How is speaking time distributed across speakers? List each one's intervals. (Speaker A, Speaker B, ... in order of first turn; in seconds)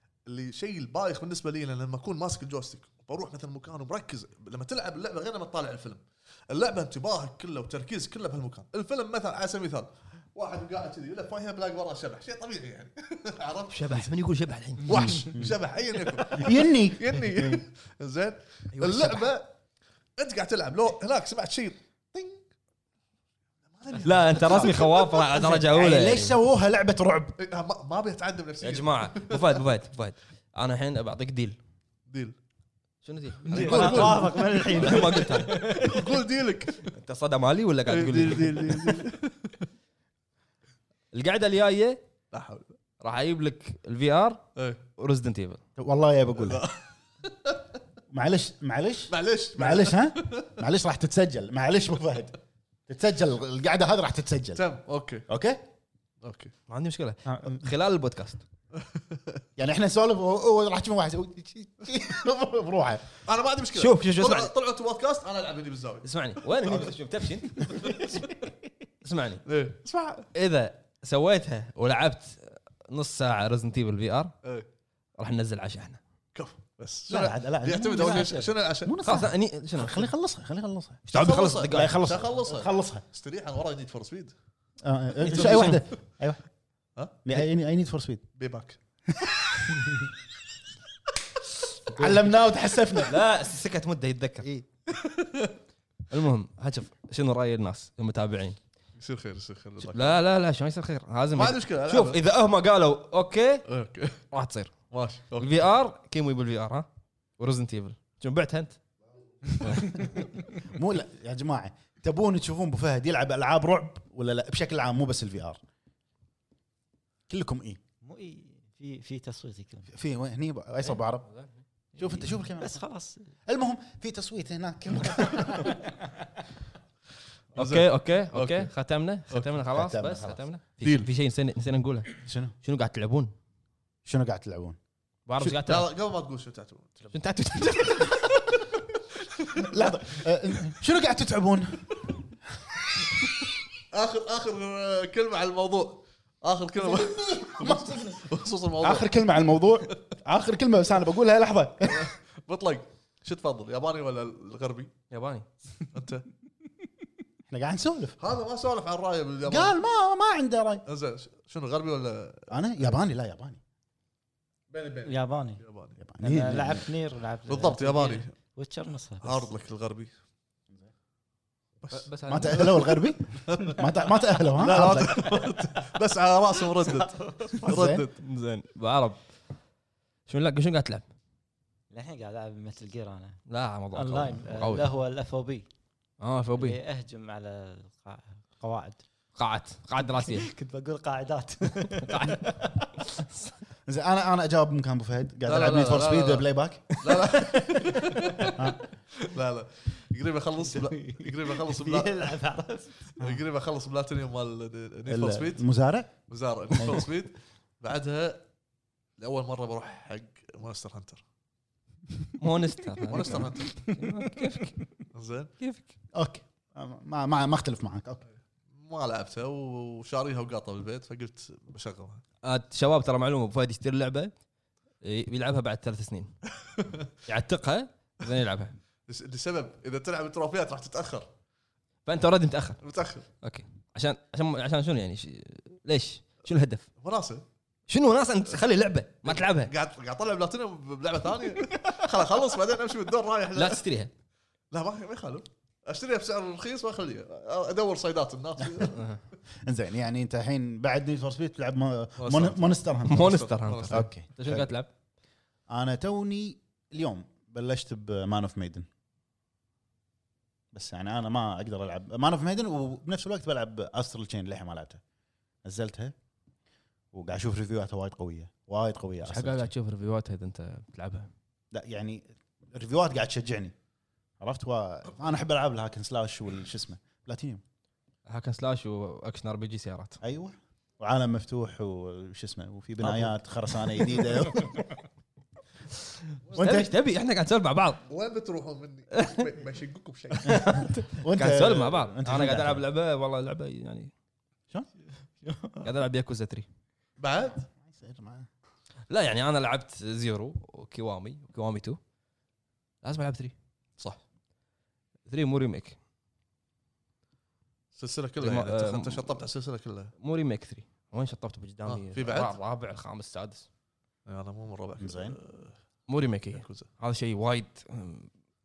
Speaker A: 0.2-14.1, 14.8-19.5, 20.2-22.4, 23.7-25.5, 27.4-29.6, 32.1-32.4, 33.5-36.9, 37.9-39.6, 42.3-42.8, 46.4-47.6, 49.1-50.6, 54.5-55.2, 56.2-56.5, 58.8-59.4, 63.2-67.0, 67.5-68.2, 69.5-70.3, 76.3-78.9, 81.1-84.3, 85.3-85.8, 88.3-88.8, 94.9-95.5, 99.0-100.2, 101.3-102.2, 103.7-104.2, 104.9-105.6, 127.5-128.7, 129.3-129.6, 130.8-131.1, 135.6-137.2, 139.5-139.8, 143.9-149.1, 151.9-154.9, 155.9-156.2, 158.2-159.8, 160.8-163.0, 164.7-166.0, 167.5-168.3, 169.2-170.1, 171.8-173.9, 174.5-178.2, 195.4-196.4, 197.0-198.7, 199.2-202.3, 203.2-205.6, 206.3-208.4, 209.2-211.2, 213.1-213.8, 215.1-215.5, 218.7-222.2, 226.6-227.1, 229.1-231.3, 232.8-233.2, 237.0-237.4, 239.2-243.8, 244.7-249.1, 252.2-254.0, 288.1-290.9, 297.2-297.7, 307.9-310.1, 311.9-312.6, 314.2-315.7, 316.5-316.9
Speaker B: 13.7-15.2, 17.3-17.6, 18.7-19.3, 24.0-26.4, 28.6-31.6, 33.0-35.9, 36.8-39.0, 41.1-42.0, 43.0-44.4, 45.0-45.6, 56.7-58.4, 63.7-64.5, 66.0-68.0, 69.0-69.4, 70.3-74.3, 75.2-76.0, 79.0-80.1, 81.1-82.3, 85.3-85.8, 93.0-94.5, 96.1-98.6, 99.8-103.6, 104.3-104.8, 105.4-106.9, 107.4-108.8, 109.5-110.0, 127.5-133.3, 135.3-135.9, 137.1-138.7, 155.1-155.4, 171.9-172.9, 178.2-179.2, 180.3-181.1, 183.5-184.9, 186.2-186.8, 189.3-190.4, 192.0-192.6, 212.4-214.8, 215.6-215.8, 222.4-224.3, 225.0-226.3, 227.2-228.8, 232.0-232.8, 233.4-236.9, 237.9-239.7, 243.5-244.1, 248.9-249.2, 253.0-254.9, 269.2-271.3, 278.2-280.2, 286.5-288.0, 289.1-289.5, 290.3-294.1, 295.8-296.6, 299.1-302.0, 303.0-303.5, 305.3-306.0, 308.4-309.4, 310.2-313.7, 316.1-318.3
Speaker C: 14.9-15.6, 16.3-17.0, 25.4-27.3, 45.8-46.6, 48.1-52.4, 52.9-54.6, 55.3-55.6, 57.3-57.7, 59.6-63.1, 77.1-83.0, 84.8-86.4, 87.2-88.2, 91.9-93.2, 94.4-94.7, 110.0-115.6, 117.3-117.8, 119.9-121.3, 122.0-122.8, 123.5-125.8, 129.7-130.4, 132.2-132.5, 134.0-134.8, 139.6-143.2, 146.8-152.1, 157.5-158.2, 159.4-160.8, 162.5-163.6, 166.0-166.8, 172.3-175.4, 177.6-178.0, 193.8-197.0, 205.1-206.1, 206.7-207.1, 216.1-218.2, 249.6-254.7, 255.7-258.9, 260.7-265.0, 265.6-266.1, 267.1-269.7, 271.7-273.7, 274.4-277.6, 280.2-284.8, 286.5-286.9, 290.5-292.8, 297.8-298.5, 315.0-315.4
Speaker D: 33.5-36.0, 118.0-119.9, 122.0-123.3, 165.0-165.6, 166.2-169.5, 176.9-177.6, 181.9-183.4, 183.9-185.7, 186.6-189.0, 190.3-192.9, 197.5-198.6, 200.7-203.2, 295.4-295.9